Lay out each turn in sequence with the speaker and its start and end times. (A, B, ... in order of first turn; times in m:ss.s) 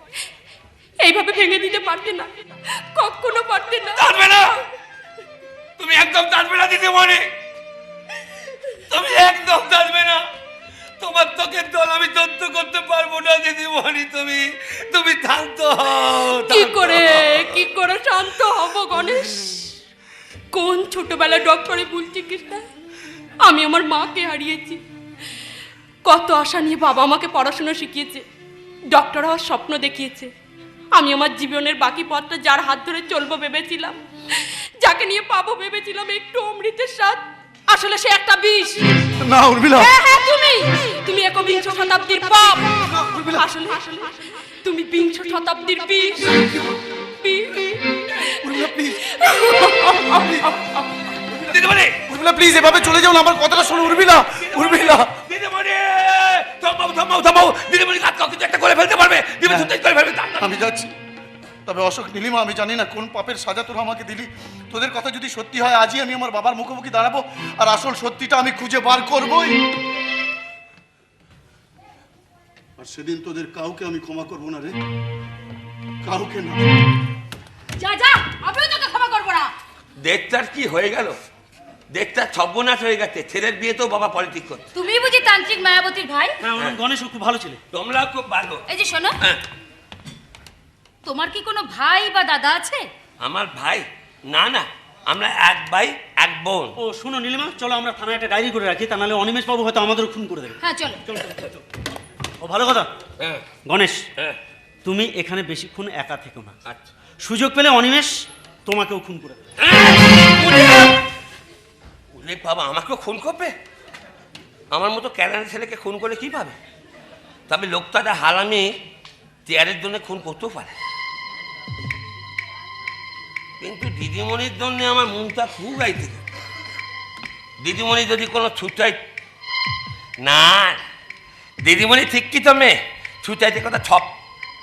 0:01.0-0:04.0 A
0:04.0-0:04.6 B
0:05.8-0:07.2 B
0:08.9-0:10.2 B
0:11.0-0:17.6 B
0:16.5-0:19.7 A
0:20.5-0:22.6 A
0:23.4-0:24.8 A
0:26.0-0:28.2 A
0:28.9-0:30.3 A
0:31.0-0:39.1 A
0:39.2-0:39.9 C
0:39.8-0:46.5 A
0:42.7-0:43.4 C
0:47.2-0:50.0 A
0:48.4-0:50.7 C
0:51.4-0:52.0 B
0:52.1-0:55.1 C
0:53.8-1:00.5 B
0:59.4-0:59.7 C
1:00.4-1:00.9 C
1:01.7-1:09.6 C
1:12.8-1:14.8 C
1:16.0-1:16.6 C
1:17.8-1:19.5 D
1:20.0-1:21.2 B
1:21.9-1:24.7 B
1:24.8-1:26.3 D
1:26.4-1:27.6 E
1:27.7-1:28.6 B
1:28.7-1:29.2 D
1:31.0-1:32.9 D
1:33.2-1:36.7 B
1:36.8-1:40.6 E
1:40.6-1:41.0 D
1:41.1-1:41.6 E
1:42.4-1:42.9 E
1:43.2-1:43.5 B
1:43.6-1:44.1 E
1:44.8-1:46.6 E
1:47.2-1:49.4 E
1:49.6-1:51.0 B
1:52.2-1:53.6 B
1:54.7-1:56.6 B
1:57.5-1:58.7 B
1:59.5-2:00.8 B
2:03.6-2:06.2 B
2:07.6-2:09.0 B
2:10.2-2:10.8 B
2:11.6-2:14.1 B